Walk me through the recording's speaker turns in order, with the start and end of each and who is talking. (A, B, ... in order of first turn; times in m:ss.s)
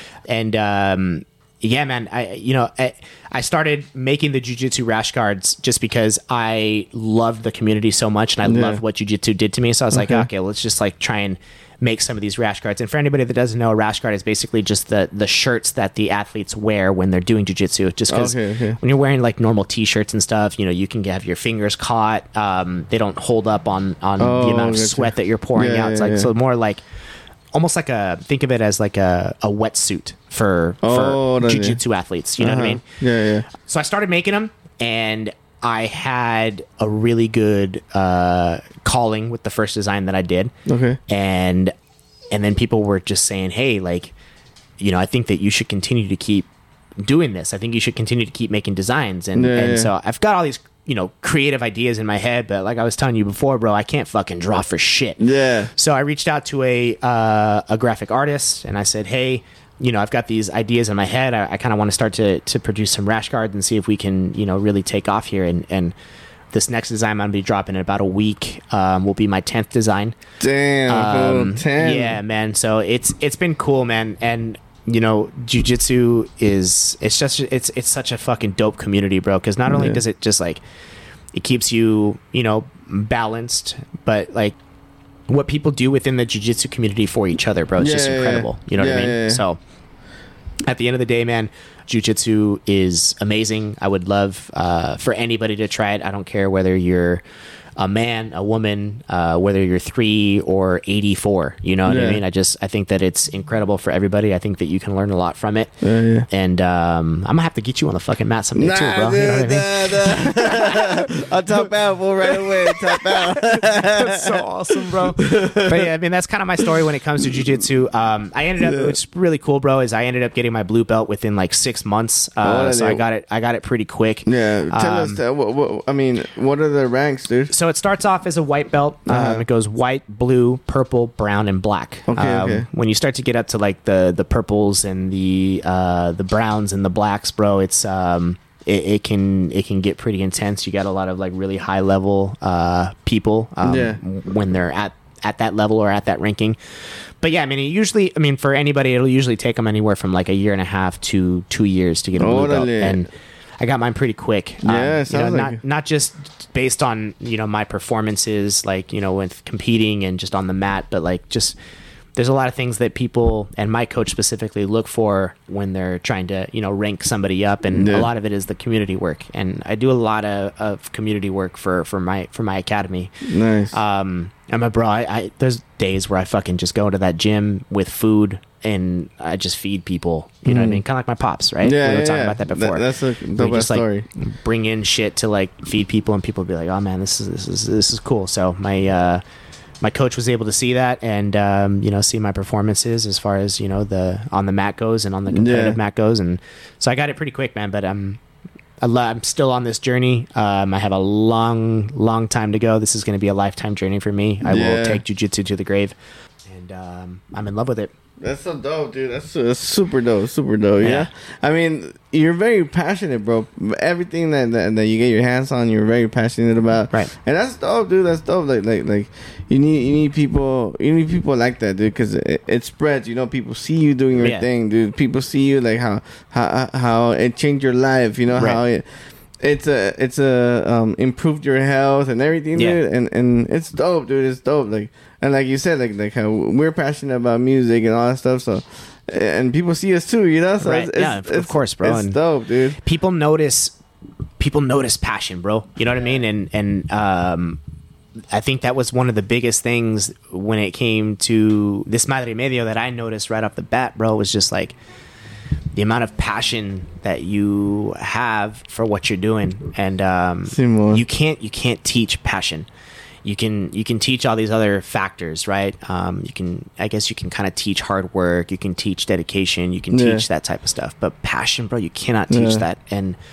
0:00.3-0:26.8 A
0:08.4-0:08.8 B
0:09.9-0:10.3 B
0:18.1-0:18.8 B
0:24.2-0:26.3 B
0:27.5-0:32.8 A
0:30.8-0:31.8 B
0:32.4-0:33.5 B
0:33.6-0:40.5 A
0:40.6-0:41.0 B
0:41.1-0:41.7 A
0:42.3-0:44.1 A
0:44.8-0:46.5 A
0:47.0-0:55.2 A
0:49.3-0:49.9 B
0:55.2-0:55.7 B
0:55.7-1:05.9 A
1:06.5-1:10.2 A
1:10.4-1:12.2 B
1:10.9-1:20.6 A
1:19.7-1:20.0 B
1:21.3-1:24.6 A
1:25.3-1:29.6 A
1:27.8-1:29.4 B
1:30.7-1:37.2 A
1:37.8-1:45.8 A
1:41.8-1:42.2 B
1:45.8-1:46.2 B
1:46.3-1:51.1 A
1:48.6-1:55.9 B
1:52.3-2:05.2 A
1:58.6-1:58.9 B
2:02.4-2:03.0 B
2:04.2-2:07.5 B
2:07.5-2:26.6 A
2:09.1-2:09.4 B
2:12.1-2:12.7 B
2:23.6-2:24.0 B
2:27.2-2:33.1 A
2:32.2-2:33.1 B
2:33.6-2:41.6 A
2:34.6-2:35.6 B
2:42.2-2:53.1 A
2:47.7-2:48.1 B
2:53.3-2:53.7 B
2:53.7-3:02.8 A
3:00.4-3:00.8 B
3:01.6-3:04.0 B
3:03.4-3:09.2 A
3:09.8-3:18.2 A
3:15.3-3:15.8 B
3:18.8-3:25.9 A
3:24.4-3:25.0 B
3:26.4-3:27.9 A
3:28.2-3:48.8 B
3:30.8-3:31.1 A
3:44.2-3:44.4 A
3:48.4-3:48.6 A
3:49.4-4:02.8 B
4:00.6-4:02.2 A
4:02.8-4:03.8 A
4:04.4-4:07.6 A
4:08.3-4:14.8 A
4:15.7-4:22.7 A
4:20.5-4:21.0 B
4:23.2-4:33.2 A
4:29.9-4:30.2 B
4:32.3-4:32.6 B